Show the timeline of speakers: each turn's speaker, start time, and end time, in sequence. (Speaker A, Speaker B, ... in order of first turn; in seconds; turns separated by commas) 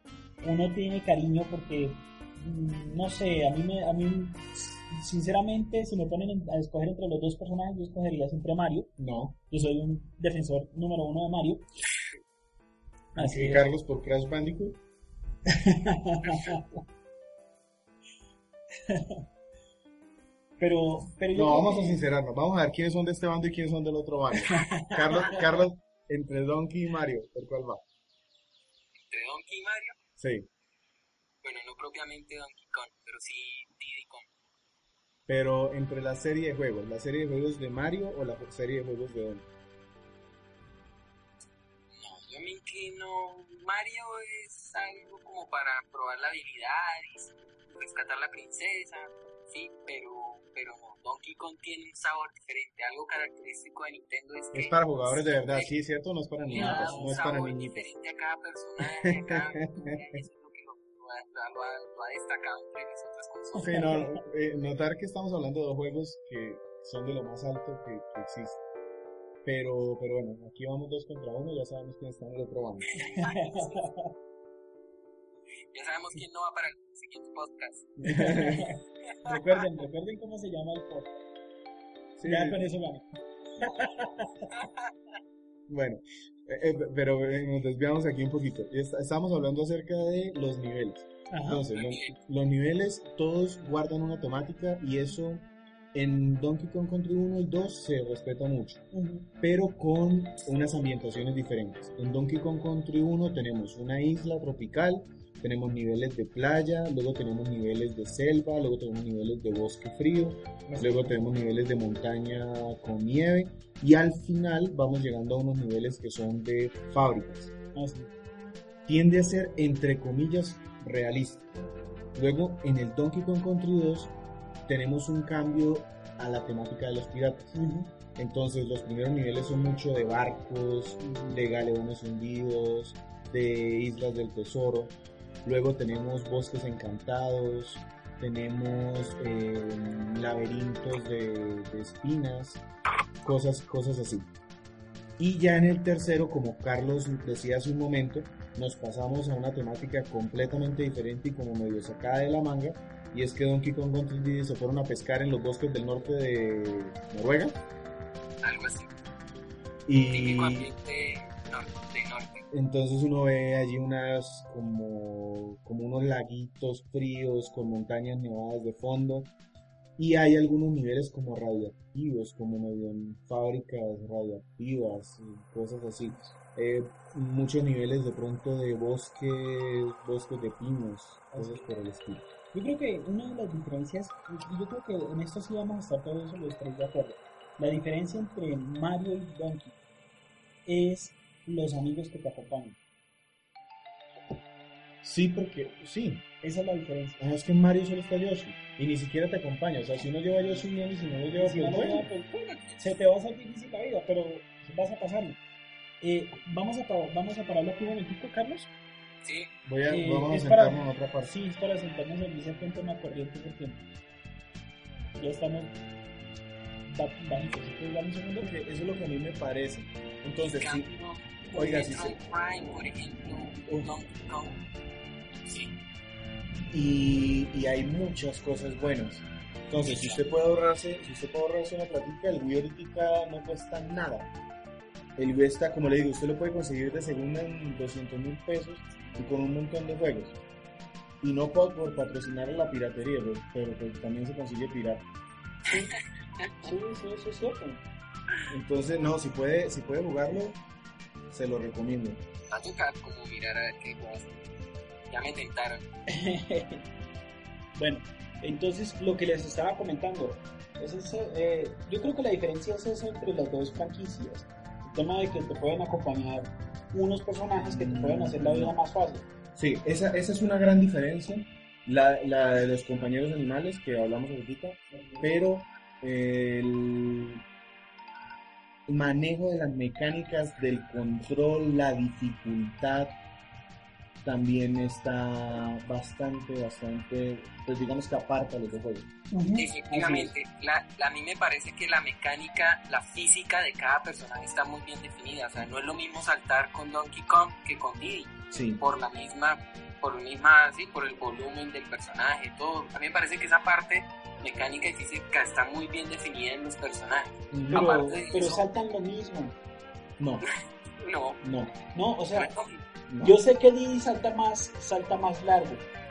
Speaker A: 0.4-8.9, Speaker B: 9.0-9.3, Speaker A: 9.5-11.6, Speaker A: 13.1-13.7, Speaker B: 13.1-14.8, Speaker A: 15.5-16.6, Speaker A: 18.9-19.2, Speaker A: 20.6-22.0, Speaker B: 21.3-27.8, Speaker A: 24.5-25.4, Speaker C: 29.1-29.9, Speaker B: 30.2-30.5, Speaker C: 31.4-34.3, Speaker B: 35.3-39.5, Speaker C: 41.9-55.7, Speaker B: 54.5-57.9, Speaker C: 56.5-63.9, Speaker A: 56.5-57.2, Speaker B: 59.0-60.2, Speaker A: 63.5-64.2, Speaker B: 63.6-68.6, Speaker B: 69.4-72.9, Speaker A: 73.0-74.1, Speaker C: 73.2-73.8, Speaker C: 75.7-78.3, Speaker B: 78.0-78.7, Speaker A: 78.0-81.1, Speaker B: 82.2-82.6, Speaker A: 82.2-83.0, Speaker A: 83.6-84.5, Speaker C: 84.5-84.9, Speaker B: 85.7-98.8, Speaker A: 91.3-91.7, Speaker C: 91.7-92.1, Speaker A: 98.9-99.3, Speaker B: 99.4-117.5, Speaker A: 110.7-111.2, Speaker A: 117.7-118.1, Speaker B: 118.8-121.4, Speaker B: 122.1-124.1, Speaker B: 124.7-127.5, Speaker A: 127.5-127.9, Speaker B: 128.1-142.6, Speaker A: 131.0-131.4, Speaker B: 143.2-144.3, Speaker B: 145.2-157.6, Speaker C: 158.4-158.9, Speaker B: 159.9-160.7, Speaker C: 160.1-162.4, Speaker B: 162.5-169.3, Speaker B: 170.0-182.2, Speaker A: 181.3-181.6, Speaker A: 182.5-189.7, Speaker A: 190.7-192.8, Speaker B: 195.0-196.2, Speaker A: 196.4-197.2, Speaker B: 197.2-202.1, Speaker A: 201.3-205.4, Speaker A: 206.0-208.7, Speaker C: 209.2-209.5, Speaker B: 209.7-211.3, Speaker A: 209.9-213.8, Speaker A: 215.2-215.8, Speaker A: 216.9-218.5, Speaker B: 218.4-220.9, Speaker C: 220.6-224.6, Speaker B: 221.5-222.2, Speaker C: 225.4-225.8, Speaker B: 226.7-234.3, Speaker C: 229.9-230.2, Speaker B: 235.2-240.4, Speaker B: 241.2-245.0, Speaker C: 245.7-246.5, Speaker A: 246.6-247.8, Speaker B: 248.5-250.6, Speaker B: 251.3-252.2, Speaker C: 252.5-254.4, Speaker C: 255.1-255.8, Speaker A: 256.1-256.8, Speaker A: 257.7-269.2, Speaker B: 267.6-268.7, Speaker B: 269.5-277.4, Speaker A: 274.9-275.3, Speaker B: 278.9-283.1, Speaker B: 284.2-289.1, Speaker A: 289.3-290.3, Speaker C: 289.6-308.8, Speaker B: 298.5-298.8, Speaker B: 307.5-308.2, Speaker A: 307.7-309.5, Speaker C: 310.4-311.4, Speaker B: 311.4-311.7, Speaker A: 311.9-312.5, Speaker C: 312.3-312.8, Speaker B: 313.1-313.4, Speaker A: 313.2-315.8